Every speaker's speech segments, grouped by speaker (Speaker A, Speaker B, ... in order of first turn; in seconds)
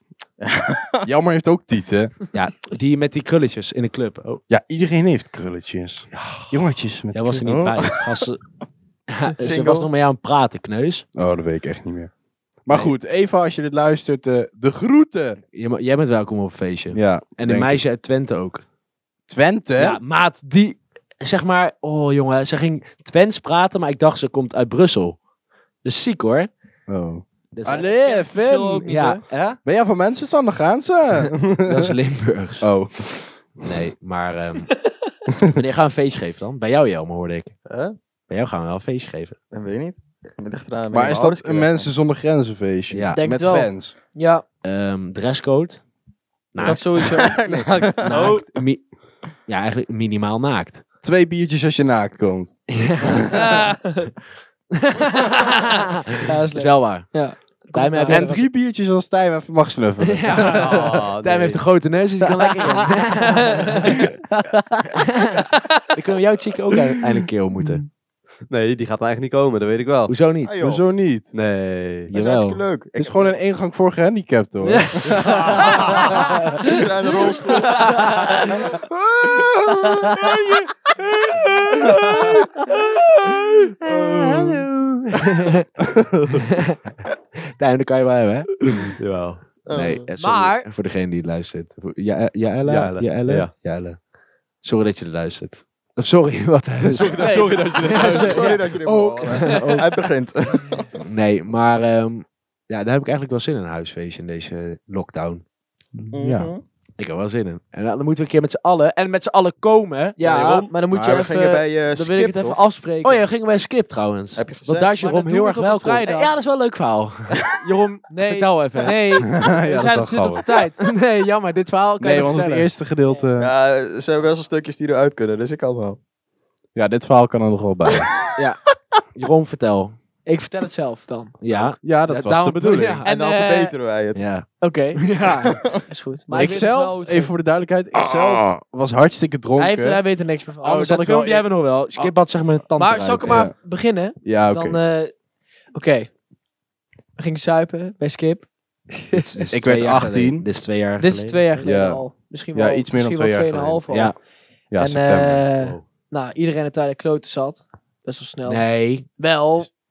Speaker A: 0.4-1.1, 7.5-7.9, 9.4-9.9, 37.6-38.0, 39.5-41.9, 46.6-48.4, 70.4-70.8, 72.1-73.4, 75.1-78.8, 89.6-90.1, 97.8-101.0, 106.1-106.6, 110.9-112.6, 114.3-114.9, 123.4-126.0, 133.0-134.2, 135.4-135.8, 138.0-138.4
Speaker B: 1.0-2.1, 4.5-7.7, 11.1-12.1, 12.6-15.4, 16.9-17.8, 19.3-20.0, 26.9-31.9, 32.6-33.6, 40.9-43.9, 51.0-53.6, 58.1-61.0, 62.4-62.9, 64.0-65.0, 70.6-71.3, 73.0-76.7, 77.7-78.5, 79.4-80.6, 81.9-82.4, 85.9-86.4, 106.2-106.5, 119.2-120.4, 122.0-123.5, 126.7-128.1, 131.8-133.0, 136.3-140.0, 140.6-142.1, 143.2-143.6, 144.2-144.8, 149.5-150.5, 151.6-154.1, 154.7-155.5
Speaker C: 2.3-4.4, 6.1-6.5, 7.1-8.4, 9.1-11.0, 12.7-12.9, 15.5-18.6, 19.8-25.2, 25.8-26.5, 27.5-27.9, 28.9-29.6, 31.6-32.7, 33.6-34.7, 35.5-37.6, 38.3-39.4, 42.9-43.2, 44.6-45.8, 46.5-47.4, 48.0-50.8, 52.7-53.2, 54.7-55.8, 56.5-58.5, 60.0-64.0, 65.9-67.8, 70.1-70.5, 72.1-72.6, 74.6-76.2, 81.8-82.7, 83.8-85.7, 86.5-86.8, 87.5-88.9, 89.7-94.0, 94.6-99.9, 101.0-105.4, 107.0-110.7, 113.0-119.3, 120.8-122.7, 128.3-128.6, 129.1-130.0, 131.4-133.1, 134.1-135.6, 136.3-136.6, 140.6-143.5, 149.1-151.6, 153.9-154.1, 158.4-159.1
Speaker D: 27.8-29.2, 43.1-44.4, 46.6-47.4, 48.1-48.4, 53.3-54.1, 55.4-55.6, 56.2-58.3, 63.3-64.0, 65.5-65.8, 82.9-83.4, 90.2-90.7, 99.4-99.8, 110.2-113.3, 115.0-116.3, 118.1-120.8, 130.2-131.3, 133.0-133.7, 134.6-135.2, 135.9-137.3, 139.6-141.0, 142.7-145.1, 145.7-146.1, 147.2-149.2, 151.0-159.7
Speaker E: 47.5-48.2, 60.5-61.6, 68.5-70.1, 71.3-72.1, 89.0-89.4, 92.6-93.5, 96.8-98.6, 155.6-155.8